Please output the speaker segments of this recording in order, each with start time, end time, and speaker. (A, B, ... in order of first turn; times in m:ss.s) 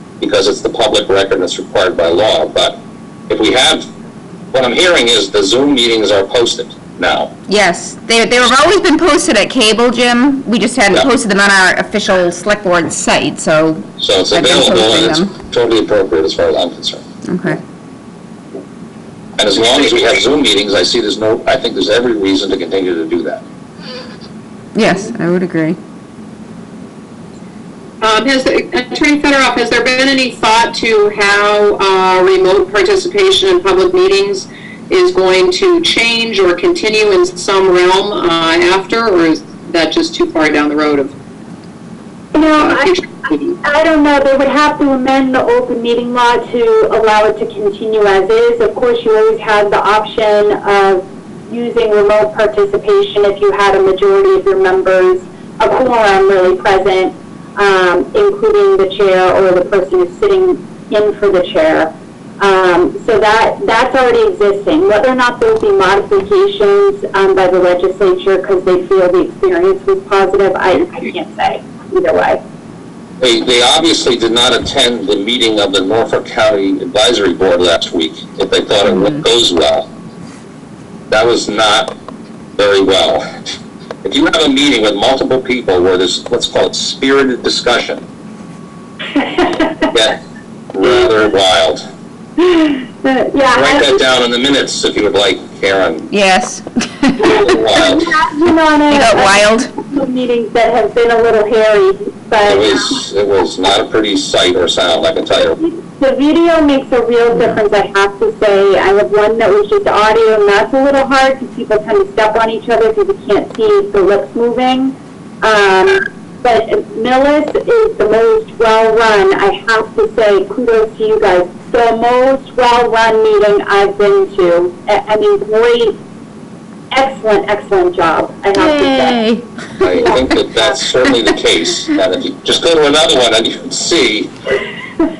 0:00.2-0:03.9 A
0:04.5-0:07.3 A
0:07.5-0:15.3 B
0:14.0-0:17.0 A
0:17.2-0:17.6 B
0:19.4-0:23.4 A
0:24.8-0:25.8 B
0:28.0-0:41.1 C
0:42.3-0:43.0 D
0:42.6-0:43.6 C
0:43.6-1:12.4 D
1:13.2-1:19.9 A
1:18.9-1:19.2 B
1:21.1-1:21.9 A
1:22.6-1:28.0 A
1:29.2-1:29.8 D
1:29.9-1:30.2 A
1:30.7-1:31.8 A
1:32.4-1:34.0 D
1:33.5-1:36.1 A
1:36.1-1:37.4 B
1:37.4-1:38.1 A
1:37.4-1:43.0 D
1:38.9-1:39.7 B
1:42.5-1:45.6 A
1:45.5-2:06.0 D
1:47.3-1:47.6 B
2:06.9-2:09.2 D
2:08.5-2:09.5 B
2:09.8-2:14.3 A
2:10.0-2:10.8 D